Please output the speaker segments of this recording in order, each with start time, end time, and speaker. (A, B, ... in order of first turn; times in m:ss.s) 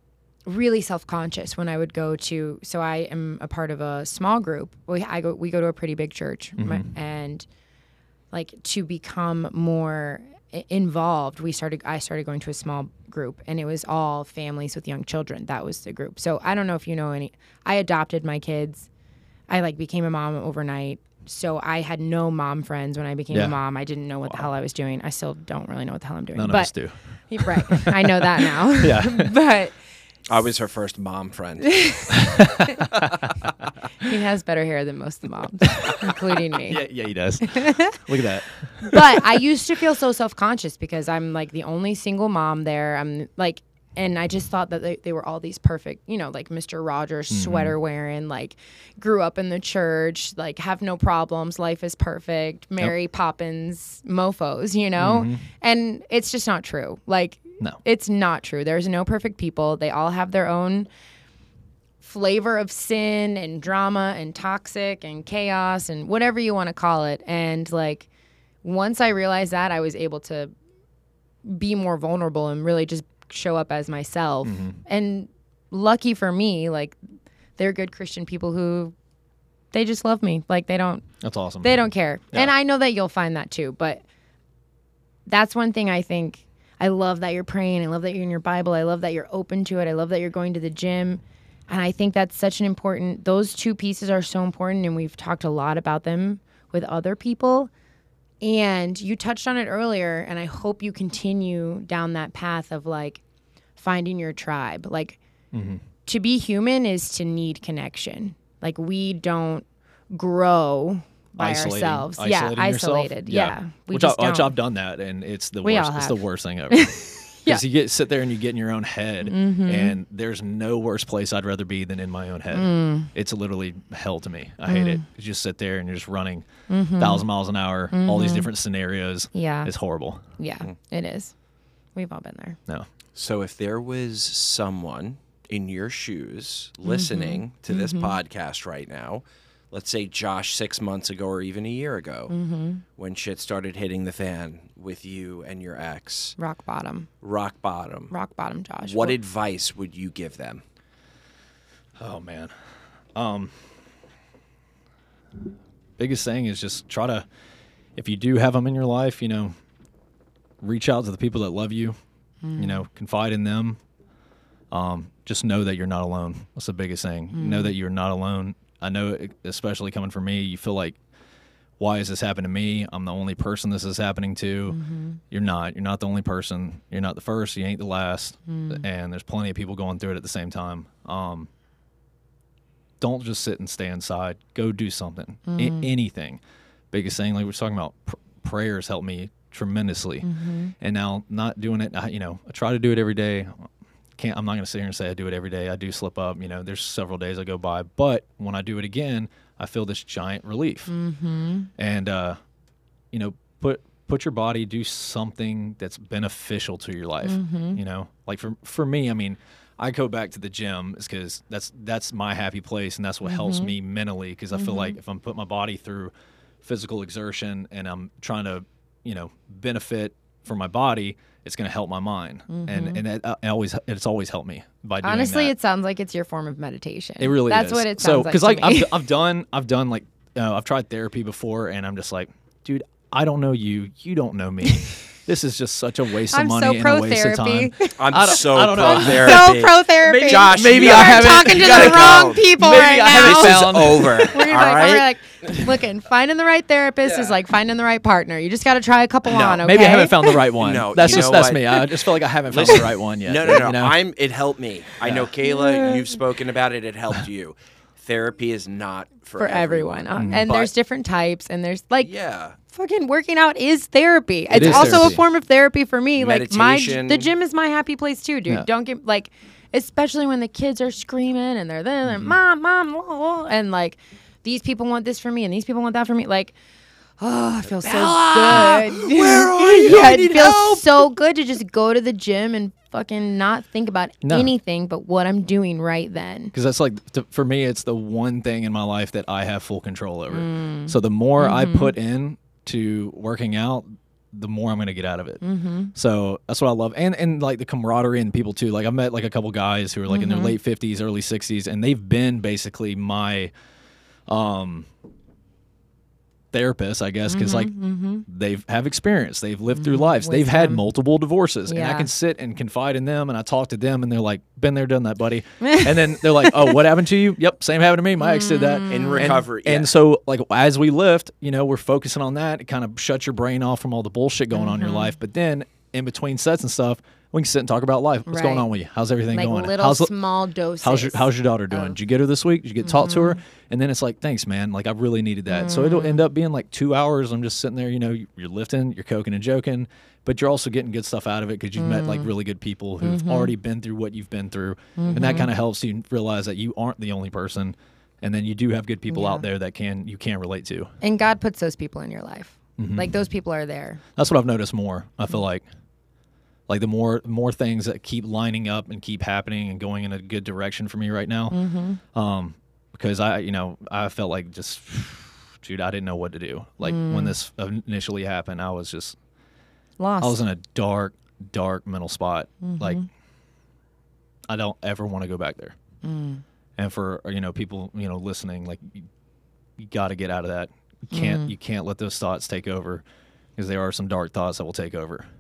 0:00.4-0:07.5 A
0:06.6-0:06.9 B
0:08.3-0:18.9 A
0:19.5-0:29.8 A
0:23.3-0:23.6 B
0:26.4-0:29.3 B
0:30.3-0:31.8 C
0:31.6-0:32.8 A
0:32.1-0:34.0 B
0:34.0-0:36.8 A
0:35.7-0:39.0 B
0:37.4-0:38.0 A
0:38.8-1:00.9 A
0:47.3-0:47.8 B
0:55.0-0:55.4 B
1:02.0-1:08.1 A
1:08.6-1:10.5 A
1:11.4-1:17.0 A
1:14.4-1:14.8 B
1:17.6-1:18.9 A
1:19.7-1:21.0 A
1:21.2-1:21.8 B
1:21.6-1:24.0 A
1:25.3-1:37.7 A
1:38.4-1:43.2 A
1:43.8-1:45.2 A
1:45.5-1:45.8 B
1:46.0-1:54.6 A
1:51.4-2:06.5 B
1:55.6-1:57.6 A
1:59.2-2:00.0 A
2:02.5-2:03.1 A
2:04.7-2:05.0 A
2:06.7-2:07.2 A
2:07.0-2:10.2 B
2:07.9-2:08.5 A
2:09.3-2:09.7 A
2:10.4-2:11.3 A
2:11.9-2:12.6 A
2:13.1-2:22.3 C
2:16.8-2:18.2 A
2:22.3-2:22.8 A
2:23.0-2:26.4 C
2:26.4-2:27.1 A
2:27.2-2:28.1 C
2:28.1-2:29.2 A
2:28.8-2:30.6 C
2:32.0-2:32.5 B
2:33.1-2:33.7 B
2:36.0-2:37.2 B
2:38.0-2:39.6 B
2:40.6-2:42.0 B
2:42.4-2:42.8 A
2:42.5-2:43.8 B
2:44.7-2:51.0 B
2:47.3-2:47.7 A
2:51.8-2:54.8 B
2:54.7-2:55.2 A
2:55.3-3:01.5 B
2:58.5-2:58.8 A
3:03.0-3:06.4 B
3:05.5-3:05.9 A
3:06.9-3:10.3 B
3:10.2-3:10.7 A
3:10.8-3:20.9 B
3:20.9-3:21.7 A
3:21.8-3:22.4 B
3:23.1-3:36.1 B
3:27.2-3:27.8 A
3:33.2-3:33.7 A
3:34.5-3:35.0 A
3:36.6-3:45.5 B
3:42.5-3:43.0 A
3:45.0-3:49.0 A
3:47.2-4:04.9 B
3:56.3-4:10.5 A
3:58.0-4:05.1 C
4:07.0-4:07.3 C
4:09.3-4:09.6 C
4:09.3-4:14.0 B
4:10.6-4:20.7 C
4:15.4-4:16.1 A
4:19.4-4:22.1 A
4:20.2-4:20.4 B
4:22.0-4:22.6 C
4:22.7-4:36.5 A
4:24.5-4:25.2 C
4:24.5-4:25.2 B
4:26.2-4:27.3 C
4:32.0-4:32.3 B
4:37.2-4:46.5 A
4:37.6-4:41.0 C
4:44.2-4:44.5 B
4:46.5-4:55.4 B
4:50.3-4:51.9 A
4:55.4-4:55.9 A
4:55.9-5:03.5 B
5:00.1-5:00.5 A
5:04.3-5:04.9 B
5:06.5-5:07.7 B
5:07.3-5:08.2 A
5:08.2-5:30.1 B
5:09.8-5:10.8 A
5:11.7-5:12.1 A
5:15.6-5:16.8 A
5:18.2-5:19.4 A
5:18.9-5:19.9 C
5:24.5-5:25.1 A
5:28.3-5:28.6 A
5:29.3-5:32.0 A
5:30.8-5:50.9 B
5:32.8-5:33.4 A
5:35.5-5:36.2 A
5:41.8-5:42.3 A
5:43.0-5:43.5 A
5:45.0-5:45.5 A
5:49.1-5:49.5 A
5:51.0-5:54.0 A
5:52.8-5:53.2 B
5:54.2-5:55.6 B
5:56.7-6:01.6 B
6:01.5-6:02.0 A
6:02.1-6:09.2 B
6:06.8-6:07.3 A
6:10.0-6:10.4 A
6:10.2-6:13.0 B
6:12.6-6:13.0 A
6:14.5-6:15.8 B
6:16.0-6:16.4 A
6:16.8-6:19.1 B
6:19.8-6:23.0 B
6:21.1-6:21.5 A
6:23.6-6:25.3 B